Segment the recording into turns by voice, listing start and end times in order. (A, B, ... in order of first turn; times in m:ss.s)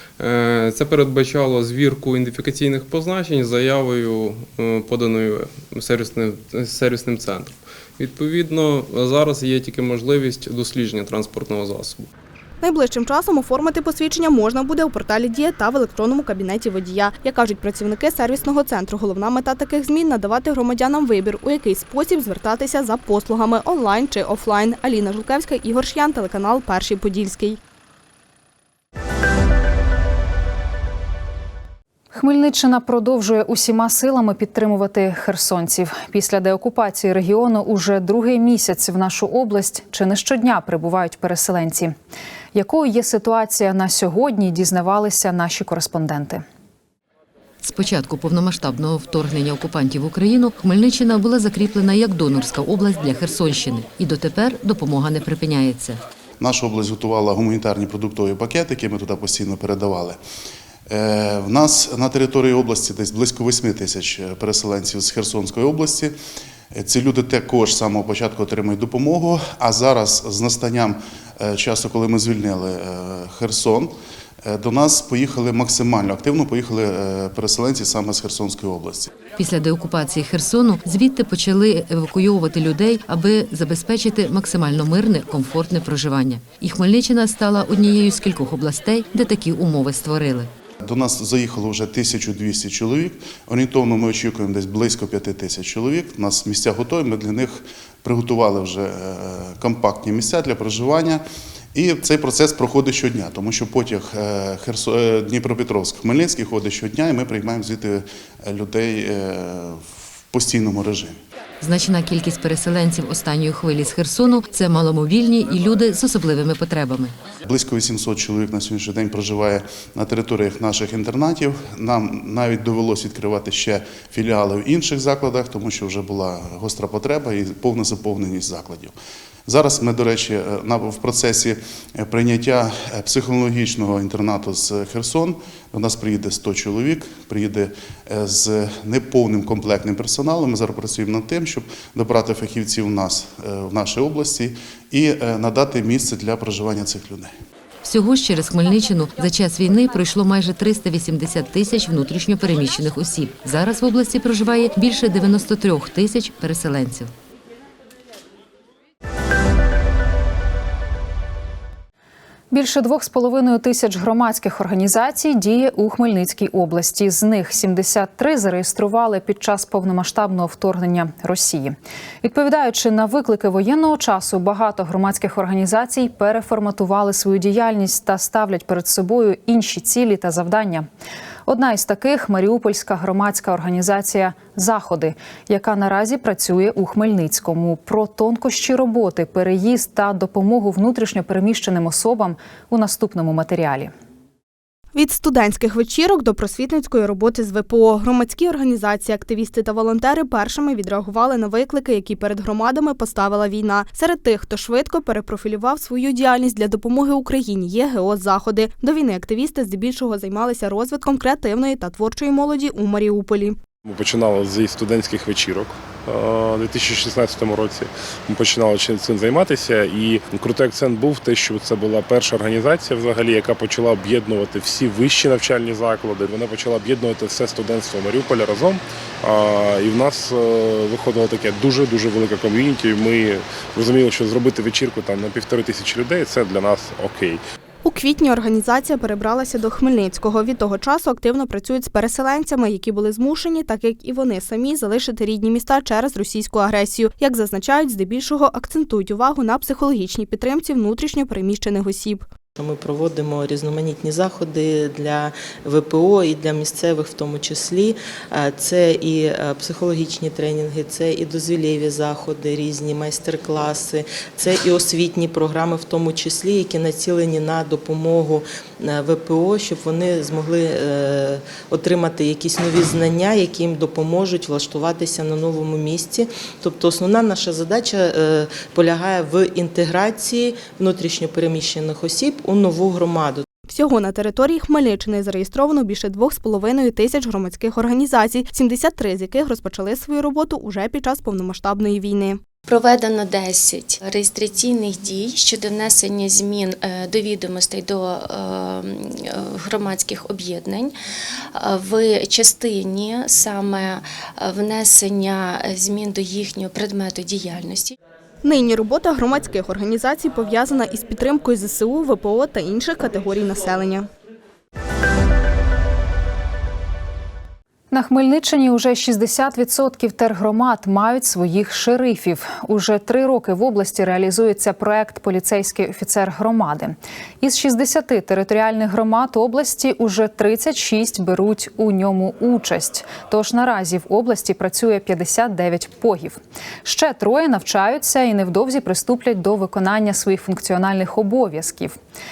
0:00.2-0:12.1 A
0:12.6-0:27.6 B
0:32.1-0:41.9 C
0:42.5-0:46.4 C
0:47.6-0:56.0 D
0:56.4-1:00.2 E
1:00.9-1:06.1 E
1:06.7-1:13.9 E
1:14.4-1:19.1 E
1:19.2-1:30.5 D
1:30.8-1:51.2 E
1:51.6-1:57.1 D
1:57.4-2:08.9 E
2:09.4-2:27.3 E
2:27.8-2:37.1 D
2:42.5-3:00.8 C
3:01.5-3:13.9 C
3:14.9-3:33.6 B
3:33.8-3:57.4 F
3:57.8-4:12.2 B
4:12.6-4:13.6 G
4:14.5-4:15.1 G
4:15.8-4:17.7 G
4:20.2-4:20.5 G
4:21.9-4:28.4 G
4:29.1-4:30.5 G
4:31.7-4:32.5 G
4:33.4-4:35.2 G
4:36.0-4:36.2 G
4:38.7-4:43.3 G
4:43.7-4:52.4 B
4:52.7-5:00.9 H
5:01.5-5:07.9 H
5:08.4-5:14.1 B
5:17.9-5:42.0 C